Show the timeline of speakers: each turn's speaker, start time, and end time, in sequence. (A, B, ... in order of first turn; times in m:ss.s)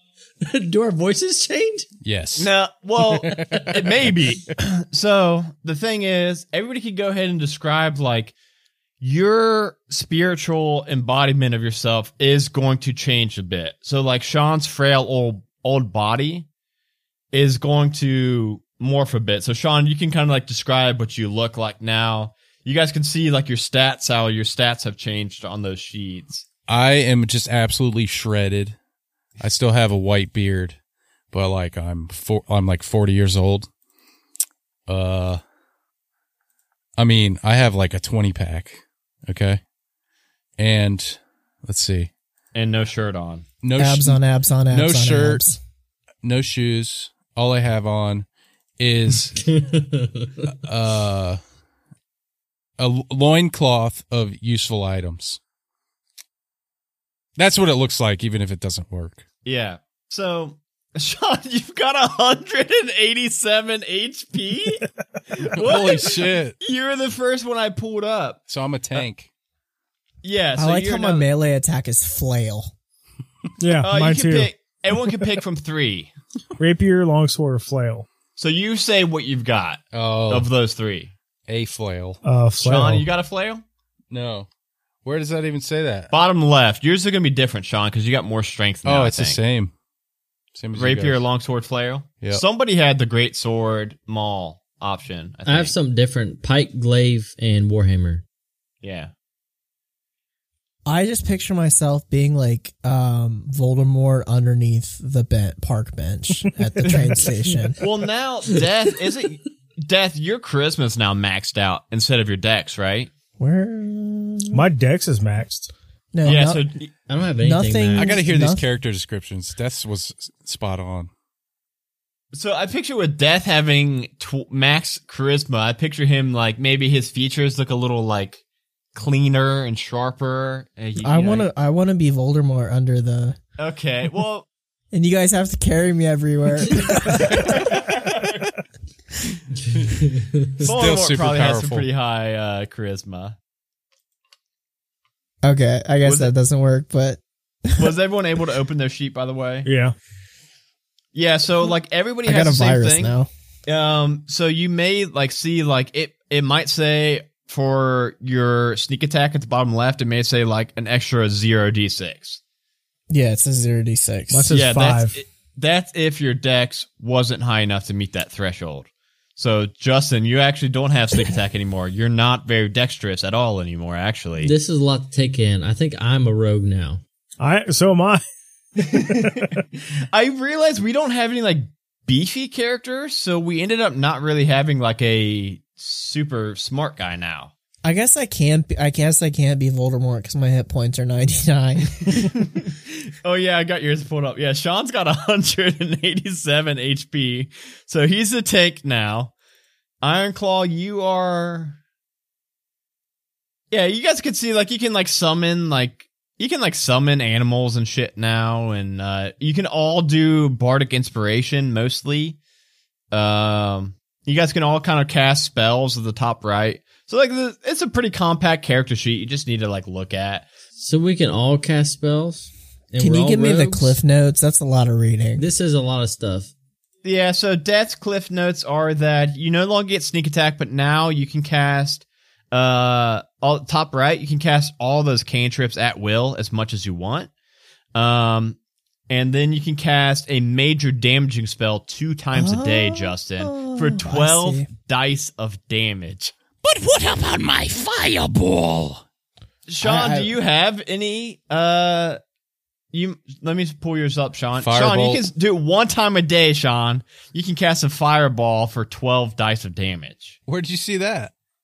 0:00.4-0:01.9 A
0:02.0-0:02.5 B
0:02.4-0:08.3 C
0:03.2-0:03.9 B
0:09.0-0:16.5 C
0:17.3-0:26.4 C
0:26.7-0:28.8 B
0:29.4-0:30.8 B
0:31.3-0:33.7 B
0:34.9-0:35.4 B
0:37.0-0:39.6 B
0:40.6-0:42.1 B
0:42.5-0:43.4 C
0:43.6-0:45.4 B
0:43.8-0:45.6 D
0:46.2-0:48.2 B
0:48.8-0:49.5 B
0:49.4-0:50.4 A
0:50.4-0:51.4 B
0:52.8-0:55.4 B
0:57.4-0:59.2 B
0:59.4-1:09.1 C
1:05.5-1:06.6 B
1:08.5-1:09.3 B
1:10.2-1:11.3 C
1:10.6-1:12.7 D
1:13.6-1:14.5 E
1:13.8-1:16.1 C
1:16.6-1:18.0 E
1:18.4-1:21.1 C
1:19.9-1:20.5 B
1:21.5-1:22.2 B
1:22.2-1:23.0 E
1:22.6-1:23.6 C
1:24.1-1:24.5 B
1:25.0-1:26.1 B
1:26.1-1:29.4 C
1:28.8-1:29.7 B
1:30.5-1:31.2 B
1:30.7-1:35.7 C
1:35.4-1:38.2 A
1:38.8-1:39.1 C
1:40.8-1:47.8 D
1:47.8-1:53.1 C
1:53.4-1:54.6 D
1:54.5-1:55.7 E
1:56.1-1:56.6 D
1:56.2-1:56.9 C
1:57.1-1:58.2 A
1:57.4-1:58.6 D
1:58.0-2:01.1 B
2:02.3-2:08.4 C
2:08.9-2:11.5 C
2:11.0-2:13.4 D
2:13.6-2:14.5 C
2:14.9-2:17.7 D
2:17.2-2:18.5 C
2:19.8-2:20.5 A
2:20.6-2:21.9 B
2:20.6-2:23.4 C
2:25.4-2:27.9 D
2:26.0-2:26.3 C
2:27.8-2:29.7 C
2:29.6-2:29.9 E
2:31.1-2:33.2 C
2:32.2-2:33.3 D
2:33.7-2:42.4 C
2:43.1-2:44.5 D
2:44.3-2:45.2 E
2:44.5-2:54.5 C
2:54.4-2:57.0 A
2:57.4-2:58.2 E
2:58.8-3:07.5 C
2:58.8-2:59.6 E
3:07.8-3:12.3 D
3:12.1-3:19.3 C
3:20.0-3:21.8 C
3:23.7-3:32.4 C
3:33.1-3:40.5 C
3:40.8-3:44.0 A
3:43.0-3:45.4 D
3:45.4-3:46.5 A
3:47.0-3:57.3 C
3:57.9-3:58.6 C
3:59.1-4:06.3 C
4:02.3-4:04.7 D
4:06.6-4:09.0 F
4:09.7-4:12.2 C
4:09.8-4:10.3 D
4:12.9-4:20.4 C
4:14.6-4:15.2 B
4:20.5-4:21.3 B